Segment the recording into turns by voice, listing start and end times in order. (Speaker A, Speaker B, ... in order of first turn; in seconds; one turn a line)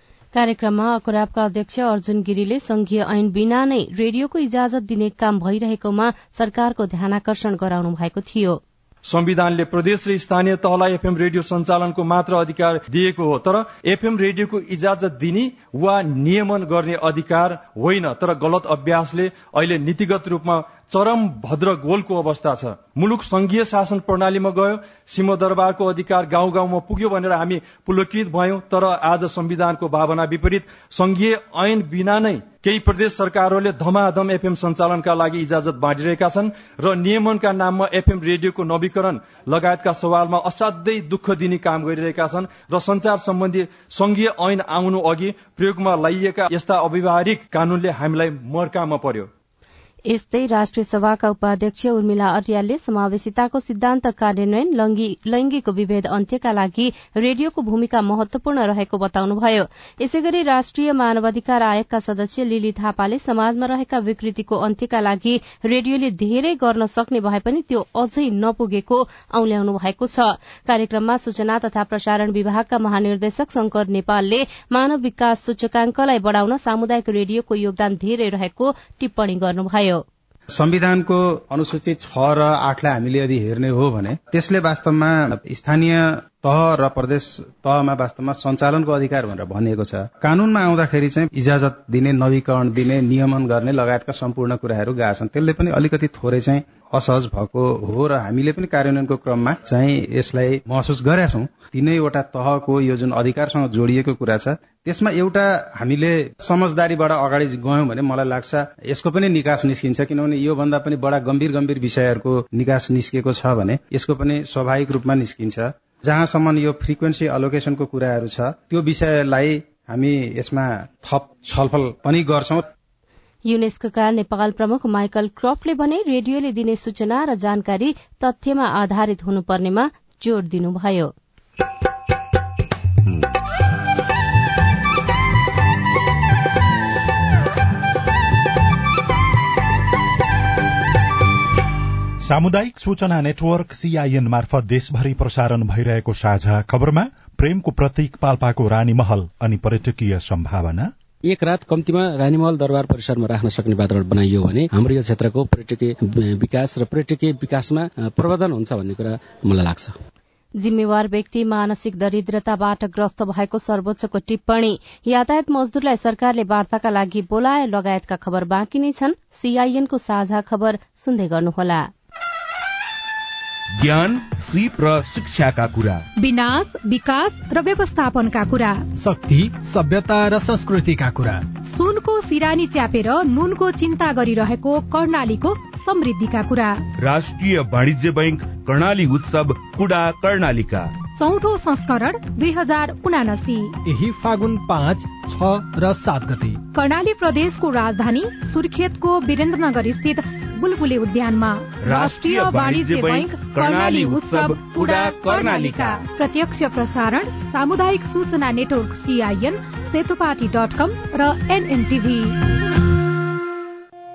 Speaker A: 0.3-8.6
Speaker B: 9.1-49.3
Speaker A: 50.1-80.0
Speaker C: 80.5-122.7
Speaker A: 123.4-131.1
Speaker D: 142.2-150.9
Speaker E: 151.2-159.9
Speaker A: 160.6-171.9
Speaker F: 173.8-176.0
Speaker G: 176.2-178.8
Speaker H: 179.0-181.4
Speaker G: 181.6-186.9
Speaker F: 187.0-190.9
Speaker G: 191.2-193.8
Speaker H: 193.8-196.6
Speaker G: 196.7-212.4
Speaker F: 201.8-206.0